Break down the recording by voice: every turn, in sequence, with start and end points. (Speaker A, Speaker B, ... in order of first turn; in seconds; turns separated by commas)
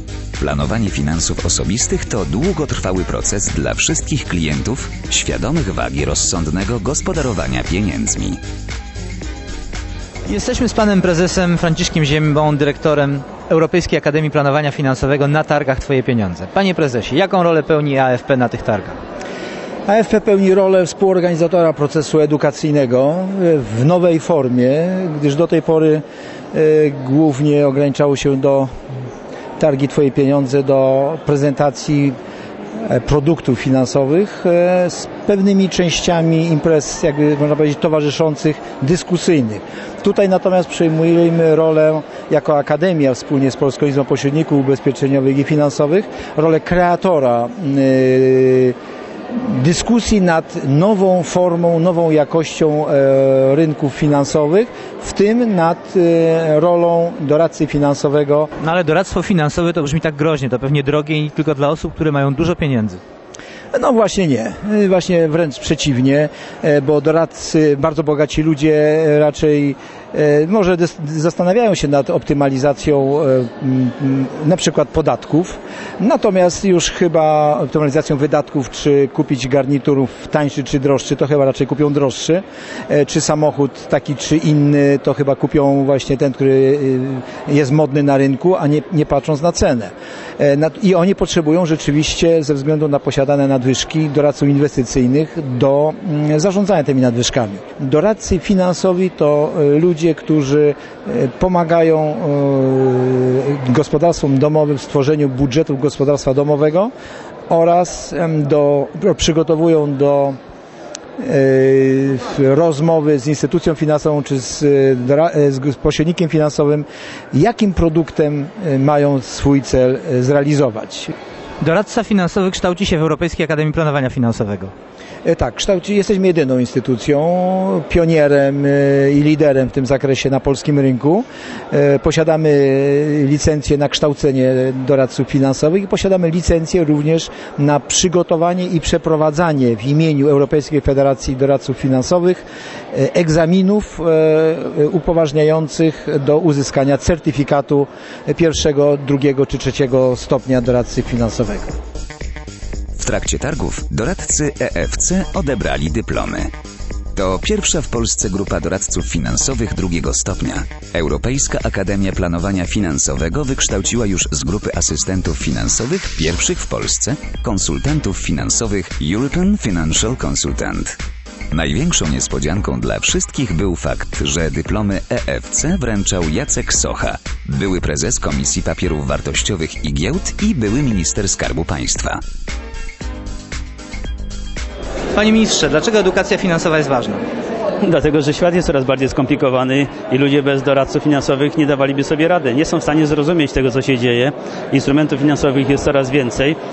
Speaker A: 0.4-8.4, Speaker B: 10.3-19.0, Speaker C: 19.9-28.7, Speaker C: 29.6-32.1, Speaker C: 32.9-48.8, Speaker C: 49.3-58.5, Speaker B: 58.6-63.0, Speaker C: 63.7-106.9, Speaker C: 107.5-110.4, Speaker C: 111.2-121.1, Speaker B: 121.6-124.7, Speaker C: 125.2-151.7, Speaker A: 153.0-156.5, Speaker A: 157.2-171.0, Speaker A: 171.5-182.2, Speaker B: 185.1-187.2, Speaker D: 187.8-196.6